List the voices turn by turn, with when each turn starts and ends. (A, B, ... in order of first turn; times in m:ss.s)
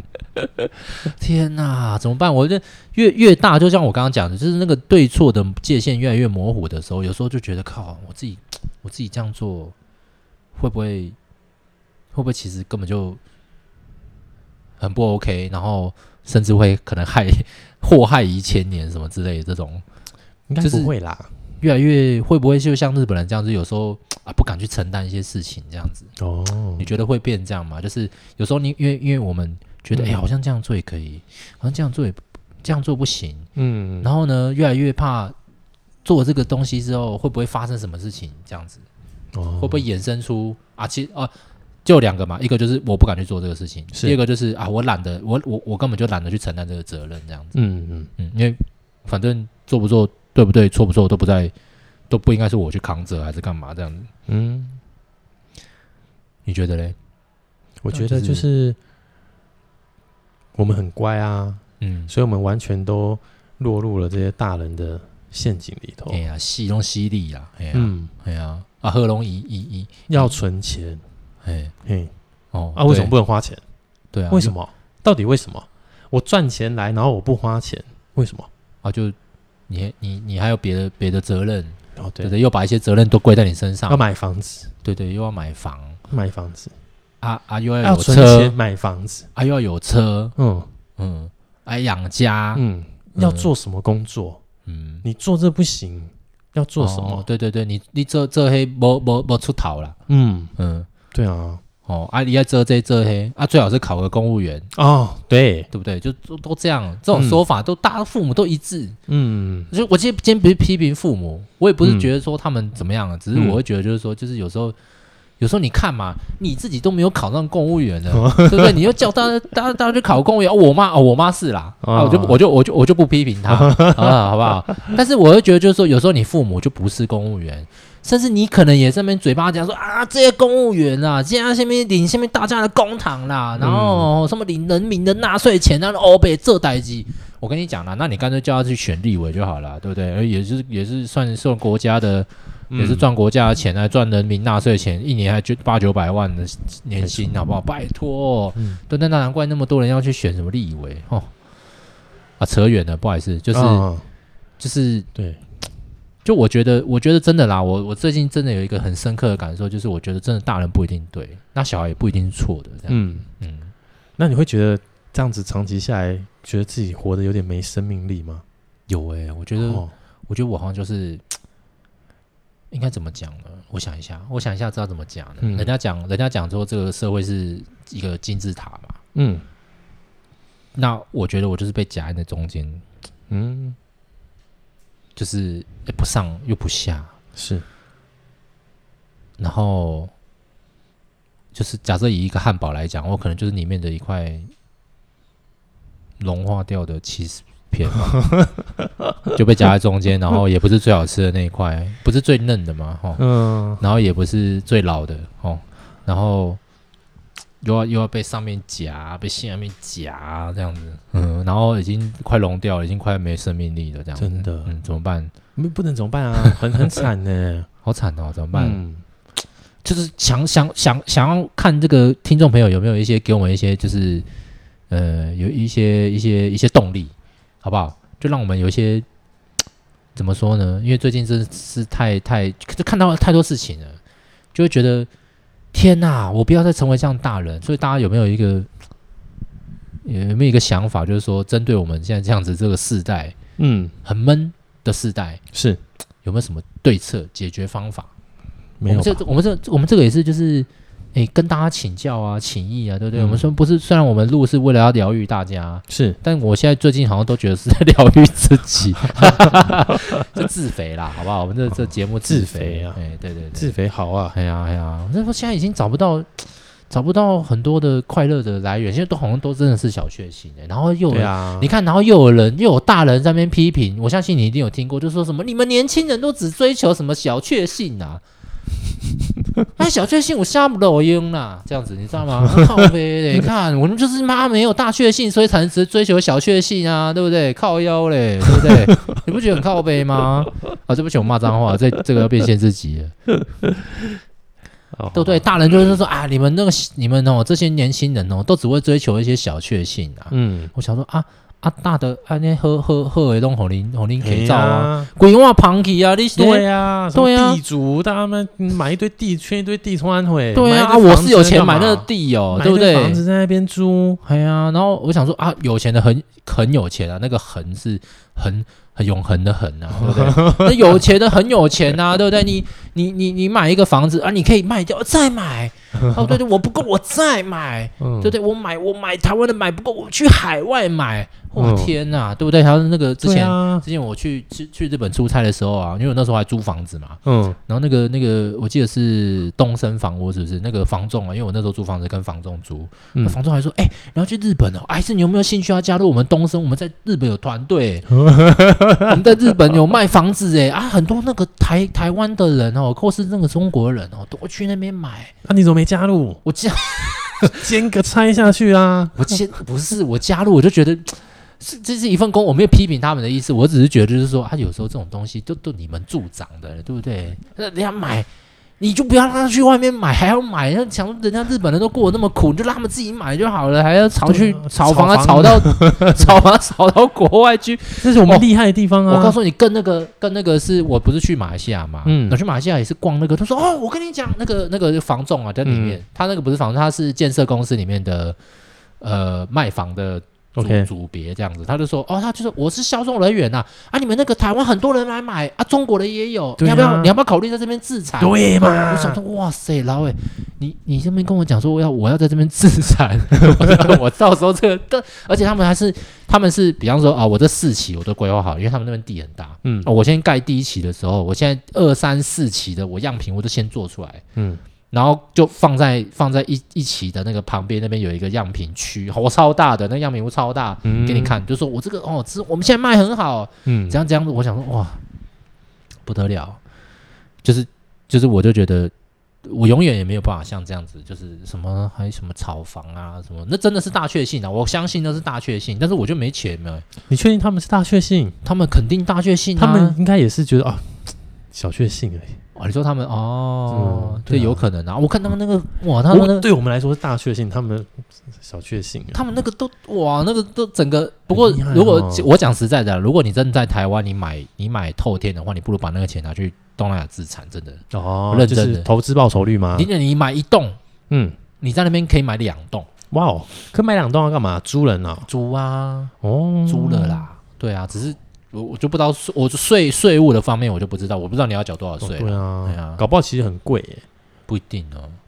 0:00.4-0:09.8 A
0:10.6-0:11.2 A
0:12.1-0:13.2 A
0:14.8-0:19.8 A
0:20.5-0:21.3 B
0:20.6-0:20.9 A
0:21.6-0:26.1 A
0:26.2-0:26.9 B
0:26.8-0:33.5 A
0:29.9-0:30.2 B
0:33.6-0:34.1 B
0:34.0-0:35.4 A
0:36.0-0:38.8 A
0:39.3-0:39.8 B
0:39.6-0:41.3 A
0:41.8-0:47.6 A
0:47.5-0:48.1 B
0:48.2-0:51.5 A
0:52.1-0:54.1 A
0:54.3-0:54.8 B
0:56.5-0:57.0 A
0:57.8-0:58.8 B
0:57.9-0:58.5 A
1:00.6-1:06.2 B
1:01.8-1:02.1 A
1:06.1-1:10.4 A
1:07.7-1:08.1 B
1:10.1-1:11.0 B
1:11.4-1:11.7 A
1:11.8-1:12.1 B
1:12.5-1:13.1 A
1:12.8-1:13.6 B
1:14.1-1:14.5 A
1:14.3-1:18.5 B
1:18.8-1:19.2 A
1:19.7-1:24.0 A
1:22.0-1:22.3 B
1:23.9-1:24.7 B
1:24.8-1:26.0 A
1:26.1-1:26.7 B
1:27.2-1:28.6 A
1:27.8-1:29.3 B
1:29.4-1:30.4 A
1:30.4-1:30.7 B
1:31.0-1:32.6 A
1:32.5-1:34.4 B
1:33.2-1:33.5 A
1:34.7-1:35.0 A
1:35.0-1:37.3 B
1:36.8-1:40.0 A
1:40.1-1:40.5 B
1:40.6-1:40.9 A
1:41.1-1:41.6 B
1:41.8-1:44.7 A
1:44.7-1:45.7 B
1:45.7-1:49.0 A
1:47.1-1:47.4 B
1:49.1-1:49.7 B
1:49.7-1:54.8 A
1:51.8-1:52.1 B
1:53.3-1:53.6 B
1:55.4-2:31.3 A
1:58.1-1:58.8 B
2:01.8-2:02.4 B
2:03.5-2:04.2 B
2:13.6-2:14.1 B
2:22.7-2:23.1 B
2:27.0-2:27.4 B
2:32.4-2:33.8 A
2:33.5-2:34.0 B
2:34.6-2:35.1 A
2:36.2-2:43.7 A
2:42.9-2:43.2 B
2:44.2-2:48.4 B
2:48.9-2:51.4 A
2:49.6-2:49.9 B
2:52.7-2:59.0 A
2:55.4-2:55.7 B
2:59.2-2:59.4 B
3:00.8-3:02.8 A
3:03.3-3:03.8 B
3:05.2-3:07.1 A
3:07.4-3:07.6 B
3:09.4-3:10.1 A
3:11.5-3:14.5 A
3:16.2-3:18.2 A
3:18.1-3:19.4 B
3:19.4-3:23.2 A
3:23.2-3:23.8 B
3:23.8-3:26.6 A
3:27.6-3:35.3 A
3:34.2-3:34.7 B
3:35.6-3:37.7 B
3:37.8-3:38.8 A
3:38.5-3:39.0 B
3:39.8-3:44.3 A
3:44.9-3:49.1 A
3:50.2-3:54.0 A
3:54.5-3:55.1 A
3:55.7-3:58.7 A
4:00.0-4:03.4 A
4:03.6-4:03.9 B
4:04.0-4:05.4 A
4:05.5-4:05.8 B
4:06.2-4:08.1 A
4:08.8-4:09.2 B
4:08.9-4:23.7 A
4:13.2-4:13.5 B
4:15.9-4:16.2 B
4:19.2-4:19.6 B
4:22.2-4:23.0 B
4:23.6-4:24.4 B
4:24.3-4:38.2 A
4:31.1-4:31.7 B
4:39.8-4:53.2 A
4:48.5-4:48.9 B
4:54.9-4:55.5 B
4:55.1-5:07.6 A
5:00.3-5:00.7 B
5:04.2-5:05.1 B
5:06.4-5:14.2 B
5:10.5-5:13.2 A
5:14.2-5:48.1 A
5:20.0-5:21.0 B
5:26.1-5:26.3 B
5:28.0-5:28.3 B
5:31.6-5:31.9 B
5:33.2-5:33.8 B
5:37.2-5:37.6 B
5:48.1-5:49.2 B
5:49.0-5:55.3 A
5:55.4-5:56.4 B
5:56.4-5:57.6 A
5:57.4-5:59.4 B
5:59.2-6:08.3 A
6:08.8-6:18.5 A
6:14.2-6:16.4 B
6:18.0-6:19.4 B
6:19.1-6:28.4 A
6:22.0-6:22.4 B
6:25.6-6:26.0 B
6:29.0-6:54.2 A
6:30.6-6:30.9 B
6:36.6-6:37.1 B
6:38.2-6:39.2 B
6:54.4-6:54.6 B
6:54.9-7:05.0 A
7:00.8-7:01.4 B
7:03.7-7:04.0 B
7:06.1-7:06.6 A
7:07.4-7:08.9 A
7:09.4-7:16.8 A
7:17.1-7:18.4 B
7:18.4-7:20.0 A
7:19.6-7:20.9 B
7:21.5-7:22.4 B
7:22.6-7:26.5 A
7:23.7-7:24.6 B
7:26.1-7:29.2 B
7:29.1-7:38.9 A
7:31.3-7:32.3 B
7:37.9-7:39.9 B
7:39.8-7:40.8 A
7:41.1-7:41.4 B
7:41.6-7:42.9 A
7:43.1-7:45.3 B
7:45.3-7:46.1 A
7:46.2-7:47.3 B
7:46.7-7:53.0 A
7:52.0-7:54.0 B
7:54.5-7:55.2 A